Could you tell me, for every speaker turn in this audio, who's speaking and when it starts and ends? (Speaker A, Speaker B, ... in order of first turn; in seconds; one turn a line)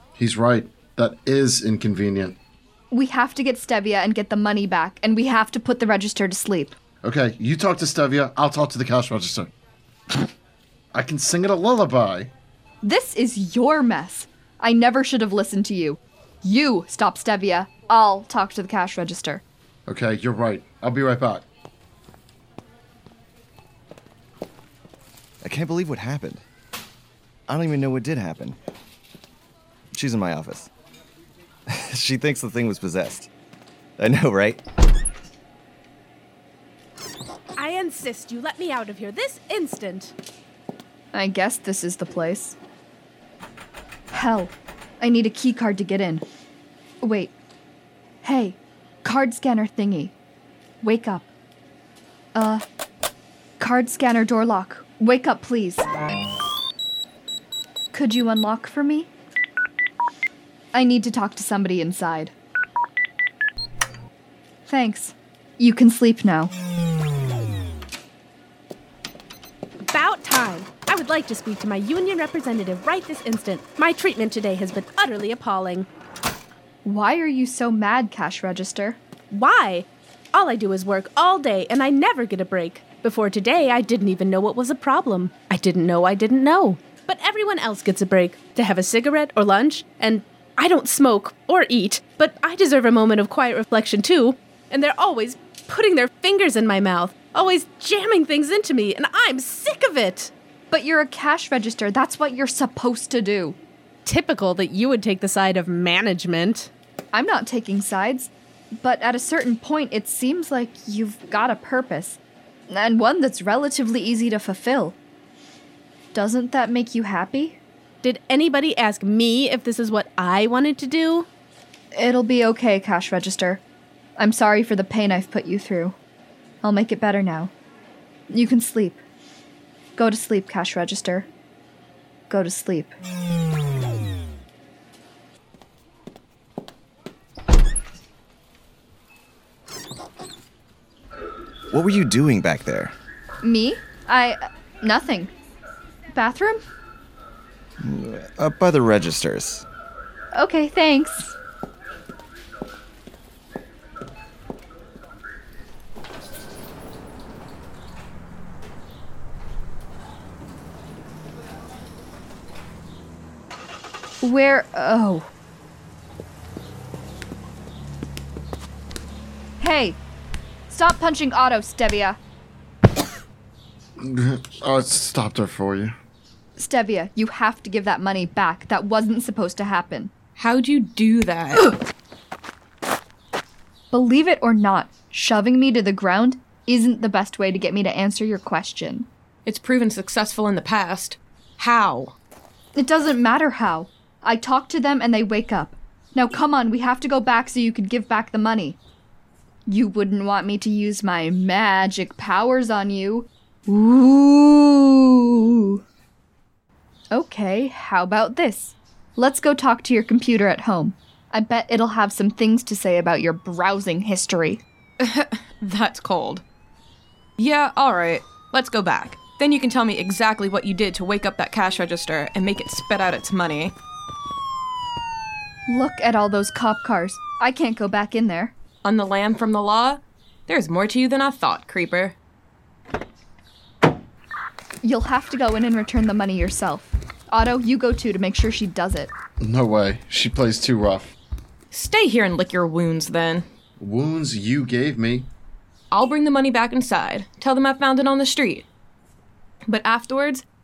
Speaker A: 0.1-2.4
Speaker B: 2.9-6.7
Speaker A: 7.0-9.5
Speaker A: 10.9-12.3
Speaker B: 12.8-19.4
Speaker A: 19.9-21.4
Speaker C: 25.4-26.4
Speaker C: 27.5-28.6
Speaker C: 29.9-30.7
Speaker C: 31.7-33.3
Speaker C: 34.0-34.6
Speaker D: 37.6-40.1
Speaker B: 41.1-42.6
Speaker B: 44.1-46.2
Speaker B: 47.0-47.3
Speaker B: 48.2-50.1
Speaker B: 50.8-51.3
Speaker B: 52.3-52.6
Speaker B: 53.6-55.9
Speaker B: 57.9-59.1
Speaker B: 60.7-62.3
Speaker B: 64.7-66.5
Speaker D: 69.9-75.9
Speaker B: 76.8-79.0
Speaker D: 79.3-100.3
Speaker B: 100.7-103.6
Speaker D: 104.0-106.7
Speaker B: 107.1-115.0
Speaker B: 116.1-117.6
Speaker D: 118.0-121.3
Speaker B: 121.9-123.6
Speaker B: 124.2-126.0
Speaker B: 126.6-127.5
Speaker B: 128.3-129.0
Speaker B: 129.9-131.3
Speaker B: 132.3-132.9
Speaker C: 141.7-142.9
Speaker B: 143.4-145.3
Speaker B: 146.1-146.6
Speaker C: 147.8-149.6
Speaker B: 150.3-151.3
Speaker B: 164.2-165.3
Speaker B: 169.6-170.0
Speaker B: 170.7-172.2
Speaker A: 174.0-175.9
Speaker B: 176.6-180.1
Speaker E: 180.3-181.8
Speaker B: 183.9-189.1
Speaker E: 189.4-192.2
Speaker B: 192.7-198.8
Speaker B: 199.7-205.8
Speaker B: 207.1-214.6
Speaker E: 215.0-216.4
Speaker E: 217.4-223.7
Speaker B: 225.7-228.5
Speaker E: 228.8-232.2
Speaker B: 234.8-239.1
Speaker A: 239.4-241.1
Speaker E: 241.7-243.5
Speaker A: 243.8-245.3
Speaker E: 245.9-248.7
Speaker E: 249.6-250.4